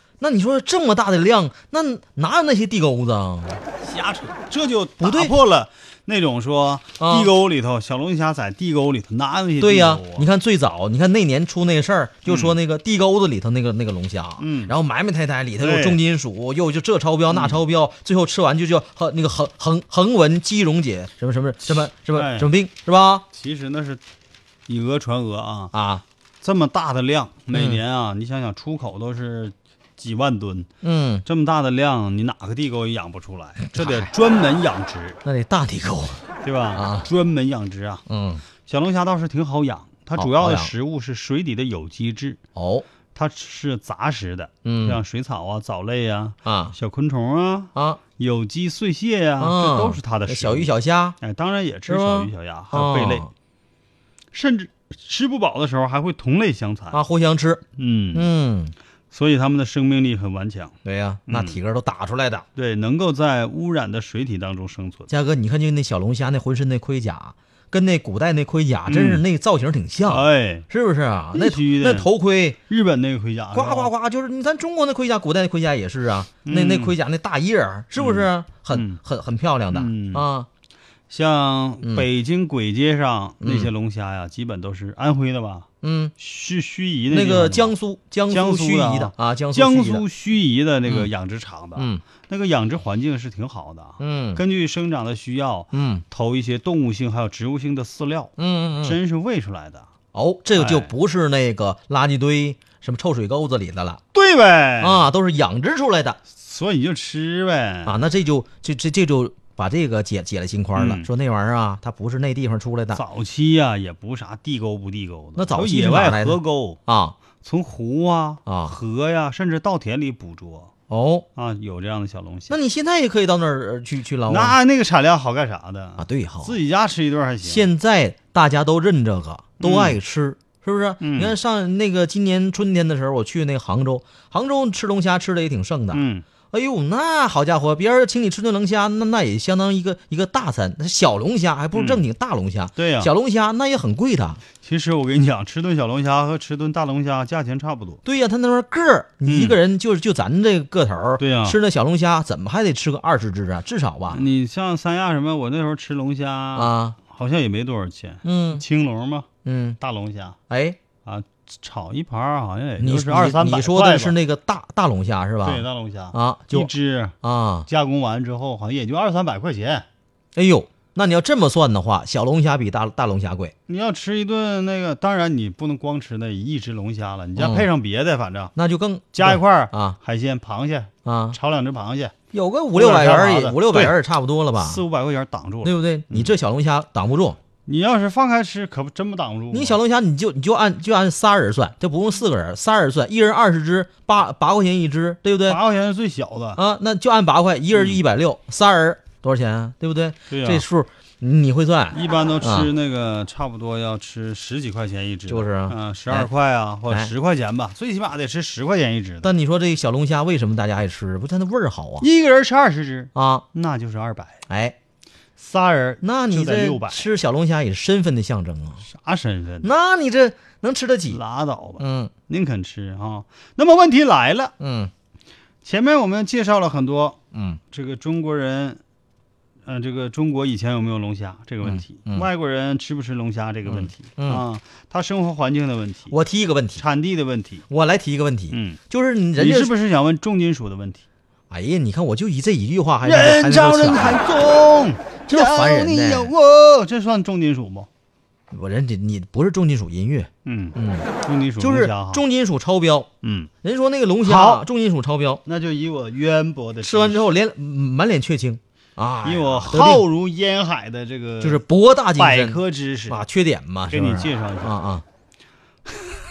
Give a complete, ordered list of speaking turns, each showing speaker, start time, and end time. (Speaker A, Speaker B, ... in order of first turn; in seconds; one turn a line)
Speaker A: 0.2-3.6
Speaker B: 3.8-10.3
Speaker A: 5.0-5.3
Speaker A: 7.0-7.3
Speaker A: 9.6-23.2
Speaker B: 12.3-12.6
Speaker B: 14.4-14.8
Speaker B: 15.6-16.0
Speaker B: 17.3-17.6
Speaker B: 21.6-22.5
Speaker B: 23.3-24.0
Speaker B: 24.7-25.7
Speaker A: 25.7-26.0
Speaker B: 26.4-30.7
Speaker A: 27.5-27.8
Speaker A: 30.8-31.2
Speaker B: 31.2-35.2
Speaker A: 33.8-34.1
Speaker A: 35.2-37.1
Speaker B: 36.4-38.1
Speaker A: 38.1-38.4
Speaker B: 38.6-42.4
Speaker A: 40.2-40.7
Speaker A: 42.5-42.9
Speaker B: 43.1-53.3
Speaker A: 44.6-45.0
Speaker A: 46.5-46.8
Speaker A: 47.8-48.0
Speaker A: 49.4-51.2
Speaker A: 51.9-53.3
Speaker B: 54.3-57.0
Speaker A: 56.9-57.6
Speaker B: 57.8-58.3
Speaker A: 58.1-58.8
Speaker B: 59.1-60.8
Speaker A: 60.9-62.5
Speaker B: 61.3-61.6
Speaker B: 62.6-65.1
Speaker A: 65.1-72.6
Speaker B: 68.9-69.2
Speaker B: 70.1-70.7
Speaker B: 71.3-72.1
Speaker B: 72.7-73.9
Speaker A: 73.5-80.5
Speaker B: 76.4-77.0
Speaker B: 78.0-79.0
Speaker B: 79.7-80.3
Speaker B: 81.1-87.8
Speaker A: 83.4-83.7
Speaker A: 85.8-86.1
Speaker A: 87.1-90.0
Speaker B: 88.3-99.9
Speaker A: 91.8-92.0
Speaker A: 94.0-94.4
Speaker A: 95.7-96.0
Speaker A: 98.4-99.0
Speaker A: 100.1-104.0
Speaker B: 100.6-100.9
Speaker B: 104.1-105.0
Speaker A: 104.8-106.2
Speaker B: 106.3-107.9
Speaker A: 107.9-113.0
Speaker B: 110.8-111.1
Speaker B: 112.9-116.8
Speaker A: 115.4-117.2
Speaker B: 117.3-120.7
Speaker A: 118.5-118.8
Speaker A: 120.9-121.3
Speaker B: 121.4-122.6
Speaker A: 122.5-124.6
Speaker B: 124.3-127.7
Speaker A: 126.0-126.6
Speaker A: 127.4-144.4
Speaker B: 129.6-130.0
Speaker B: 131.0-131.3
Speaker B: 135.9-136.2
Speaker B: 141.7-142.0
Speaker B: 142.8-143.1
Speaker B: 144.6-148.0
Speaker A: 148.1-154.2
Speaker B: 149.2-149.6
Speaker B: 151.2-151.6
Speaker B: 154.1-159.3
Speaker A: 156.6-157.0
Speaker A: 158.2-158.6
Speaker A: 159.4-159.8
Speaker B: 159.8-160.4
Speaker A: 160.5-160.8
Speaker B: 161.0-164.2
Speaker A: 162.8-166.7
Speaker B: 165.4-167.2
Speaker A: 167.2-167.7
Speaker B: 167.7-169.9
Speaker A: 170.3-173.5
Speaker B: 173.7-178.5
Speaker A: 177.4-177.7
Speaker A: 178.6-180.0
Speaker B: 179.1-182.2
Speaker A: 181.1-181.4
Speaker A: 182.3-184.8
Speaker B: 182.7-184.0
Speaker B: 184.6-186.3
Speaker A: 185.6-187.4
Speaker B: 187.7-189.8
Speaker A: 189.5-195.6
Speaker B: 195.5-196.6
Speaker A: 196.6-202.7
Speaker B: 197.7-198.0
Speaker B: 200.3-200.6
Speaker B: 201.9-209.3
Speaker A: 205.3-206.3
Speaker A: 209.2-212.1
Speaker B: 212.0-214.4
Speaker A: 213.2-213.4
Speaker A: 214.5-214.8
Speaker B: 215.4-217.1
Speaker A: 216.0-218.8
Speaker B: 218.8-219.7
Speaker A: 219.6-221.2
Speaker B: 221.1-224.5
Speaker A: 221.8-222.1
Speaker A: 224.6-224.9
Speaker B: 225.6-227.2
Speaker A: 227.3-227.6
Speaker B: 227.7-228.8
Speaker B: 229.7-236.2
Speaker A: 231.6-232.3
Speaker A: 233.7-234.4
Speaker A: 236.1-236.8
Speaker B: 236.8-237.7
Speaker A: 237.7-239.7
Speaker B: 238.5-238.8
Speaker B: 239.4-241.1
Speaker A: 241.5-244.2
Speaker B: 243.0-247.9
Speaker A: 245.3-246.3
Speaker A: 248.5-251.1
Speaker B: 250.4-252.2
Speaker A: 251.6-253.1
Speaker B: 253.2-253.5
Speaker A: 253.6-255.4
Speaker B: 254.2-254.7
Speaker B: 255.4-257.3
Speaker A: 256.8-260.1
Speaker B: 259.2-261.6
Speaker A: 261.4-265.1
Speaker B: 262.2-263.2
Speaker B: 263.9-264.8